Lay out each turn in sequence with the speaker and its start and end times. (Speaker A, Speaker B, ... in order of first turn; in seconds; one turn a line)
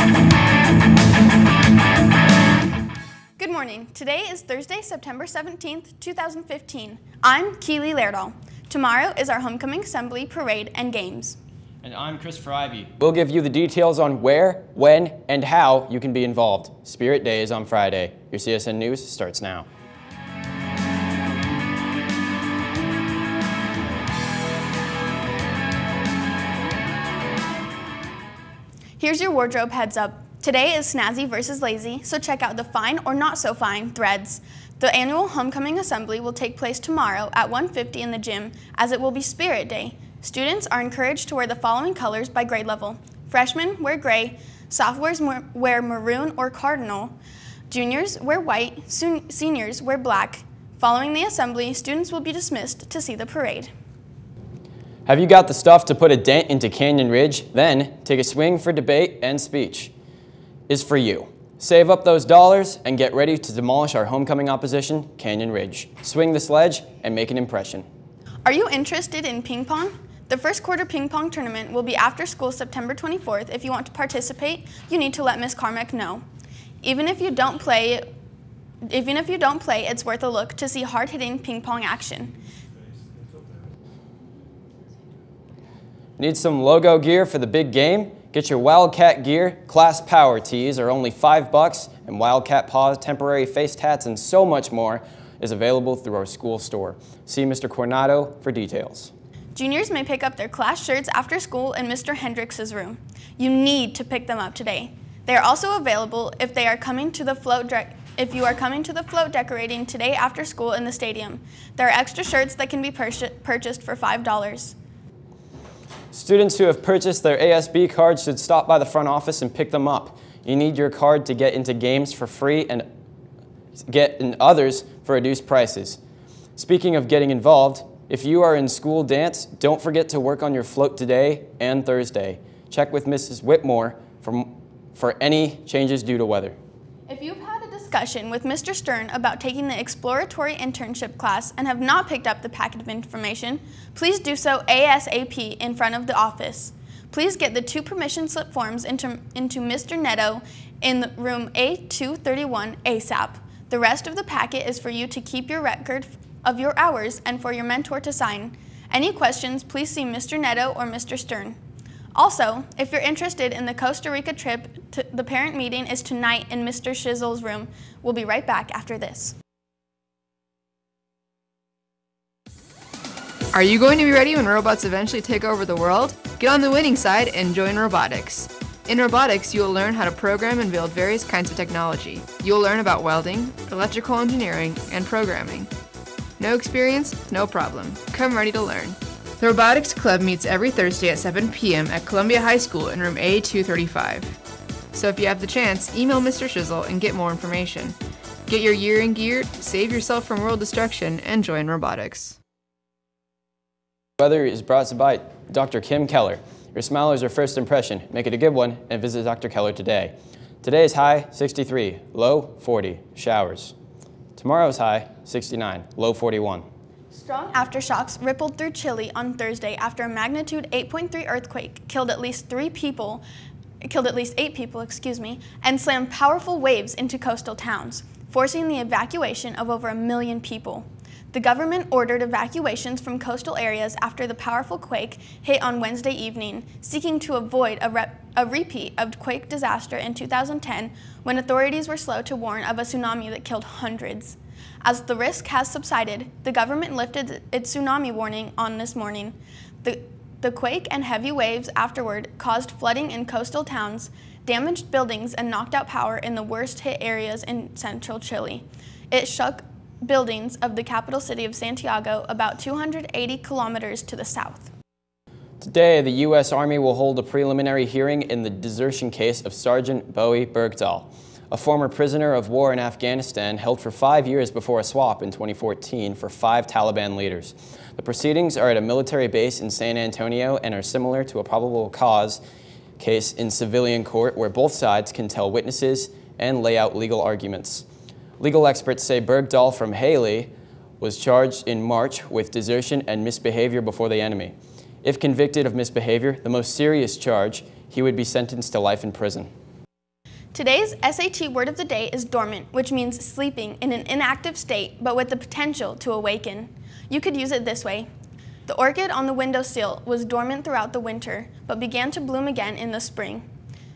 Speaker A: 3.4-11.4
Speaker B: 11.8-19.6
Speaker A: 29.0-47.1
Speaker A: 47.7-53.7
Speaker B: 55.0-59.9
Speaker B: 60.7-67.8
Speaker A: 68.4-76.2
Speaker A: 76.8-78.0
Speaker A: 78.9-82.3
Speaker B: 86.2-99.1
Speaker A: 99.5-114.7
Speaker B: 116.1-122.8
Speaker B: 123.8-126.0
Speaker B: 126.6-136.6
Speaker A: 137.1-161.6
Speaker A: 162.1-169.3
Speaker C: 173.5-185.7
Speaker C: 186.4-194.3
Speaker C: 194.9-197.9
Speaker C: 198.5-202.3
Speaker B: 204.2-213.7
Speaker B: 214.3-216.6
Speaker A: 217.1-223.2
Speaker A: 223.8-264.7
Speaker B: 265.6-282.4
Speaker B: 283.0-287.9
Speaker B: 288.4-299.5
Speaker A: 300.5-308.1
Speaker A: 308.6-313.4